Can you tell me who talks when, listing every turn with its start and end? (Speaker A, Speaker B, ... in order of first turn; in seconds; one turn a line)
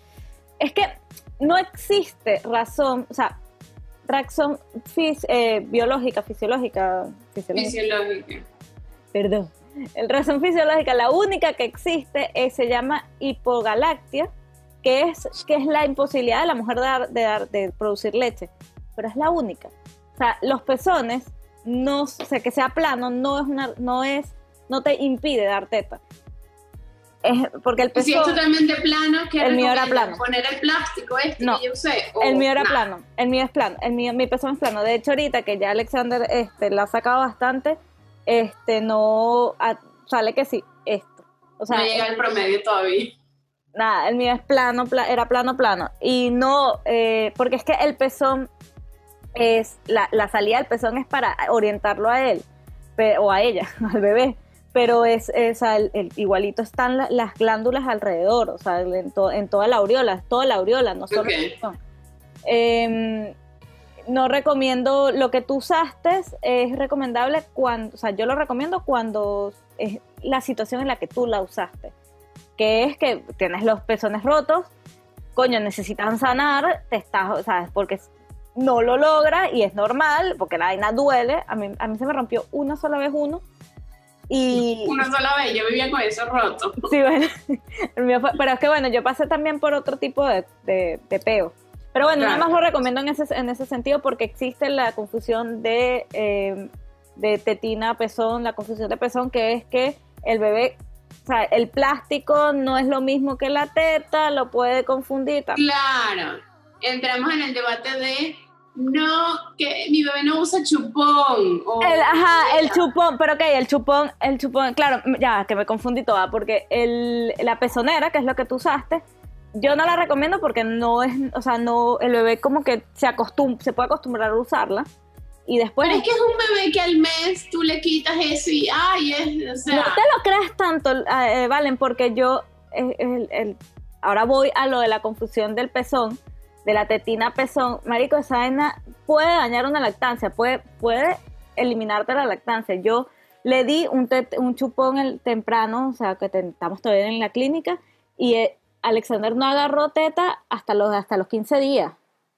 Speaker A: 0.6-3.3
Speaker A: 4.1-7.8
Speaker B: 7.5-8.4
Speaker A: 9.1-14.3
Speaker A: 14.8-26.0
Speaker A: 27.2-28.4
Speaker B: 27.9-32.8
Speaker A: 29.4-30.2
Speaker A: 32.2-42.2
Speaker B: 41.7-43.1
Speaker A: 43.8-48.5
Speaker A: 49.3-52.4
Speaker A: 53.0-61.8
Speaker B: 61.1-61.5
Speaker A: 62.4-63.3
Speaker A: 64.1-71.9
Speaker A: 72.6-74.7
Speaker A: 75.3-83.4
Speaker A: 84.3-85.0
Speaker B: 84.5-86.9
Speaker A: 86.9-105.6
Speaker B: 92.2-92.5
Speaker B: 105.5-112.9
Speaker A: 111.8-119.0
Speaker A: 119.5-124.8
Speaker A: 125.5-126.1
Speaker B: 125.8-130.0
Speaker A: 129.7-151.9